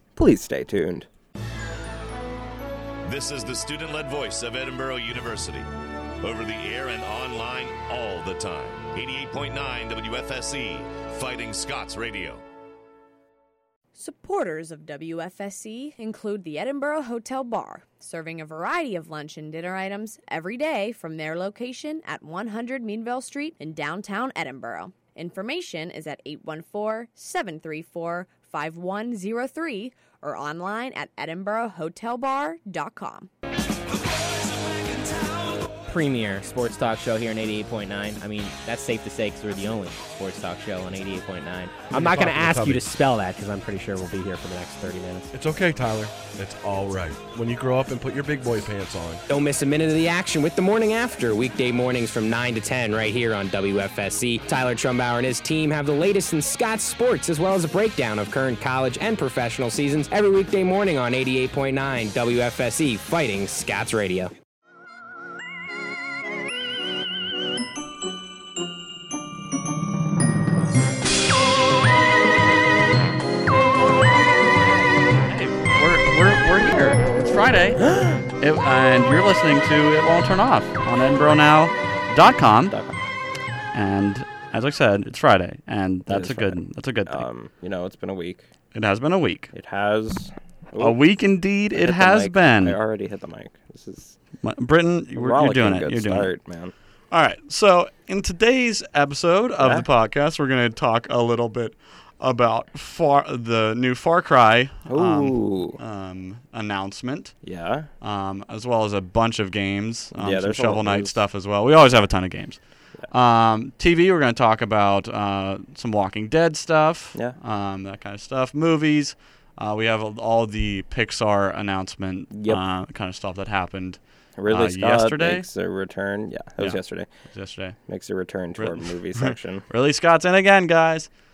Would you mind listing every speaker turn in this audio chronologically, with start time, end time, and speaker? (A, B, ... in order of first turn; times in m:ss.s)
0:00.2-0:01.1 A
0:03.0-0:05.7 B
0:06.2-0:12.4 B
0:14.0-0:33.3 C
0:35.9-0:45.3 D
0:41.9-0:42.8 E
0:45.3-0:49.2 E
0:49.3-1:04.3 F
1:15.3-1:17.9 G
1:17.9-1:18.2 A
1:18.4-1:22.8 G
1:22.7-1:23.0 A
1:23.7-1:27.3 G
1:26.1-1:28.5 A
1:28.7-1:29.5 G
1:29.5-1:31.0 A
1:30.8-1:32.8 G
1:31.7-1:34.2 A
1:34.4-1:36.3 G
1:35.2-1:36.7 A
1:37.1-1:47.4 G
1:39.6-1:39.9 A
1:44.9-1:45.8 A
1:47.4-1:47.9 A
1:48.0-2:05.5 G
1:50.1-1:51.2 A
2:02.3-2:02.6 A
2:04.4-2:07.1 A
2:06.6-2:07.8 G
2:07.9-2:09.6 A
2:08.6-2:11.1 G